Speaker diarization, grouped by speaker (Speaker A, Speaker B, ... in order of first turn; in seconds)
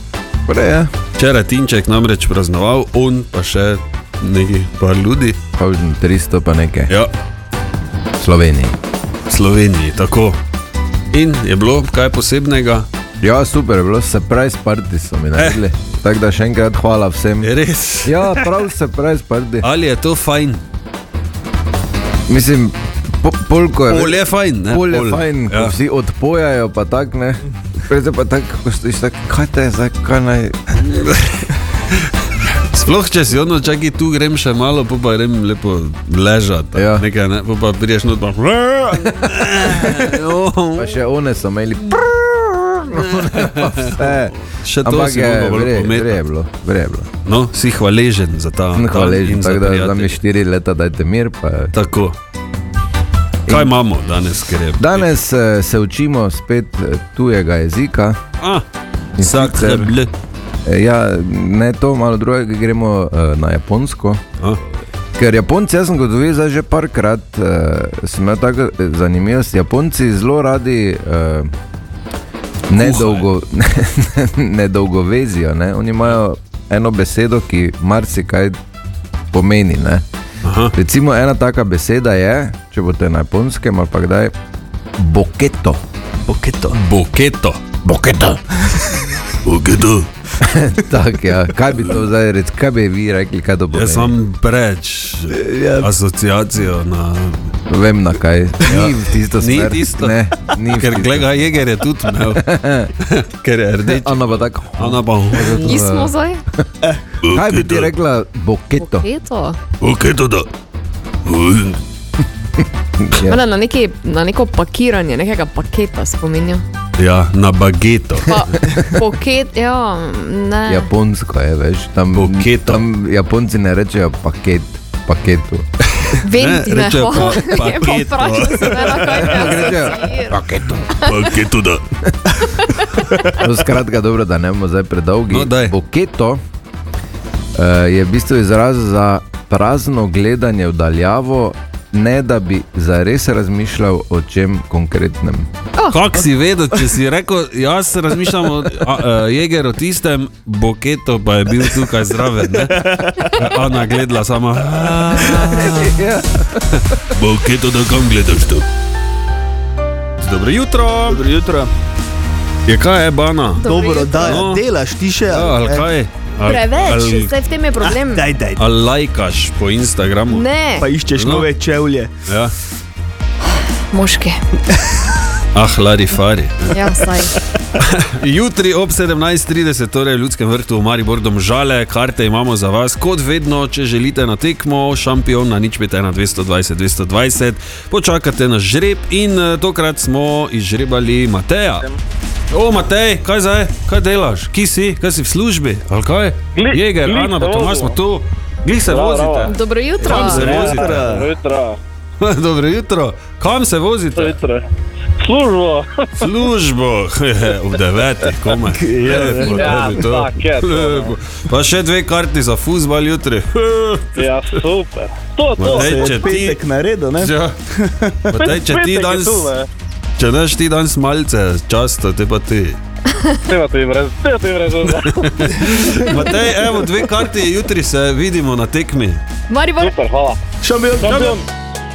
Speaker A: 0.5-0.9, 5.6-6.9, 8.2-8.8, 13.2-17.5, 18.0-19.7, 22.3-30.7, 36.7-37.1, 39.6-40.0, 40.8-47.1, 48.7-51.7, 53.5-53.7, 54.8-58.2, 59.2-59.9, 60.7-64.2, 65.2-71.5, 72.7-78.6, 79.3-80.0, 80.7-84.3, 85.0-85.8, 90.4-94.2, 97.7-101.4, 102.3-102.9, 103.9-106.1, 107.3-109.1, 113.0-113.4, 120.7-125.7, 129.2-130.8, 133.4-136.4, 137.6-145.5, 155.6-156.4
Speaker B: 1.2-5.4, 9.3-10.4, 11.1-12.9, 15.3-15.6, 17.4-18.5, 19.6-20.6, 23.9-25.8, 31.0-31.5, 32.7-41.0, 42.9-46.2, 47.2-50.2, 51.7-52.2, 53.5-55.1, 58.4-58.6, 59.2-60.1, 72.8-73.3, 80.4-80.7, 86.7-88.3, 89.4-90.1, 93.7-97.5, 98.7-100.2, 100.7-102.5, 103.0-105.8, 107.2-107.9, 109.8-110.5, 111.3-111.8, 117.0-118.7, 122.1-122.8, 126.3-129.8, 131.0-131.8, 135.3-135.8, 145.9-156.1, 156.7-158.7, 160.2-161.2, 162.7-164.6, 165.3-167.4, 168.6-170.6, 171.1-171.5, 172.3-172.5, 175.5-176.9, 177.8-191.9, 192.5-201.2, 202.2-204.4, 206.2-214.3, 215.6-216.6, 217.2-217.6, 218.3-219.6, 220.2-222.8, 224.9-229.2, 231.0-231.4
Speaker C: 86.3-86.8, 95.3-95.9, 152.6-153.5, 155.2-155.4, 161.1-161.7, 163.7-165.9, 167.8-168.7, 170.8-172.1, 200.0-201.3, 208.7-210.1, 215.6-218.4, 230.6-231.4
Speaker D: 105.6-106.4, 108.8-109.6, 113.3-116.6, 118.3-120.9, 126.2-130.4, 163.6-164.4, 166.5-168.3, 170.3-170.9, 173.9-174.4, 176.7-177.3, 199.5-200.4, 229.5-229.9
Speaker E: 196.6-198.0, 198.9-199.5, 200.4-201.8, 204.2-204.7, 205.2-206.2, 209.1-211.2, 214.2-216.3, 218.4-219.7, 223.5-225.1, 229.8-230.4, 231.1-231.4